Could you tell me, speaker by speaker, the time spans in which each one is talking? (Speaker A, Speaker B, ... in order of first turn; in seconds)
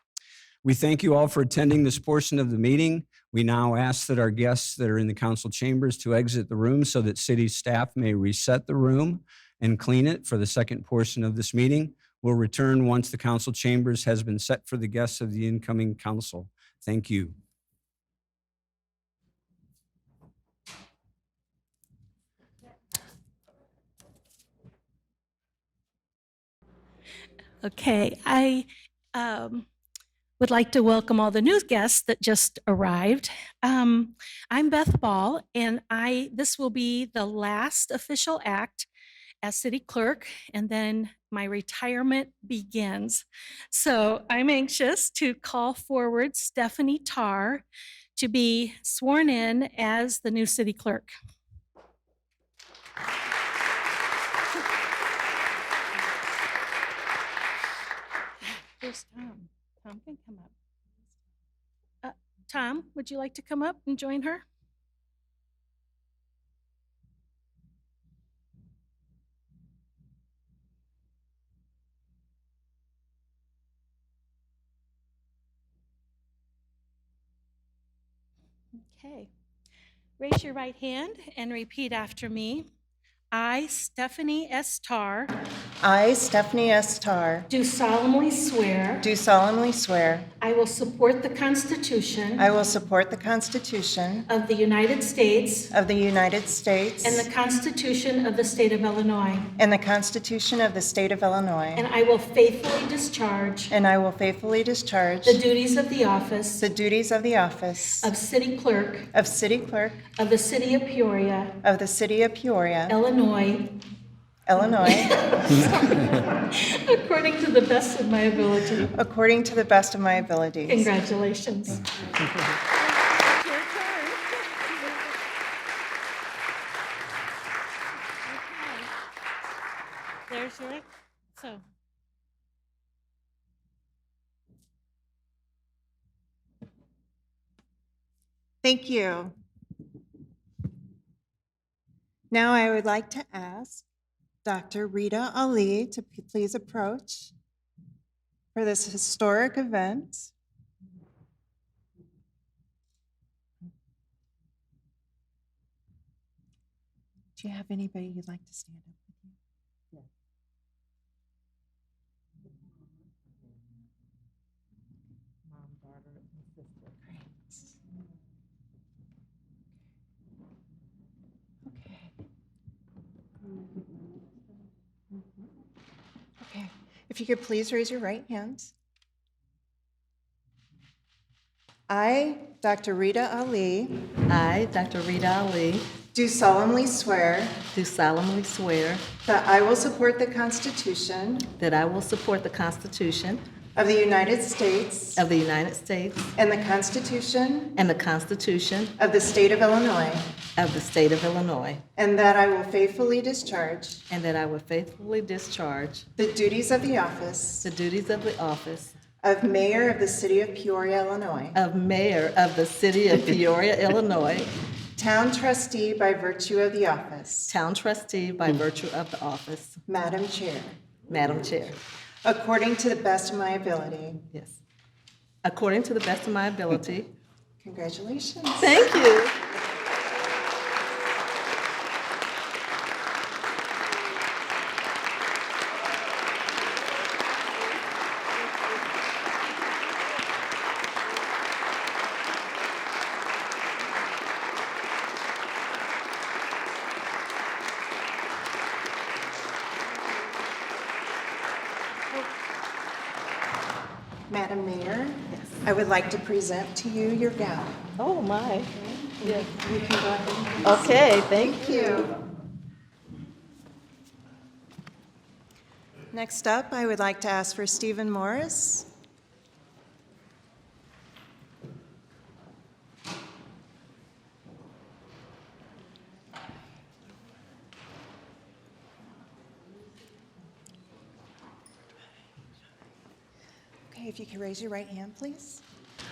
Speaker A: 0.6-17.3
Speaker B: 27.6-29.7, 30.4-38.9, 39.4-47.6, 48.2-51.1, 58.8-60.5, 62.0-64.4, 78.9-79.3, 80.2-82.7, 83.3-85.3, 87.5-89.1, 90.4-92.5, 94.3-95.7, 97.0-99.5, 101.8-103.7, 105.3-106.6, 108.0-109.1, 110.2-111.5, 112.9-113.7, 114.8-118.9, 120.7-121.8, 122.8-125.1, 128.2-128.9, 130.3-130.8, 131.3-131.6
Speaker C: 85.8-87.5, 89.0-90.3, 92.4-94.3, 95.7-97.3, 99.6-101.9, 103.7-105.4, 106.6-108.1, 109.1-110.0, 111.6-113.0, 114.5-115.2, 118.9-120.9, 138.6-139.3, 142.3-143.8, 144.4-147.3, 148.5-150.3, 157.3-159.3, 165.6-167.7, 171.7-172.1, 176.4-178.7, 181.9-184.0, 186.1-187.6, 189.2-191.5, 193.8-195.2, 196.3-197.8, 199.0-200.3, 201.9-204.0, 206.2-207.7, 209.2-211.6, 215.0-217.6, 219.9-220.8, 222.2-224.2, 227.6-228.9, 254.3-257.9, 259.2-262.1, 266.1-268.9, 283.9-285.6
Speaker D: 184.3-185.9, 187.7-189.1, 191.6-193.4, 195.2-196.3, 197.8-198.9, 200.6-201.8, 204.1-206.0, 207.6-208.9, 211.5-214.5, 217.5-219.8, 221.1-221.8, 224.3-224.6, 225.4-227.1, 228.6-229.4, 258.0-259.5, 260.6-262.1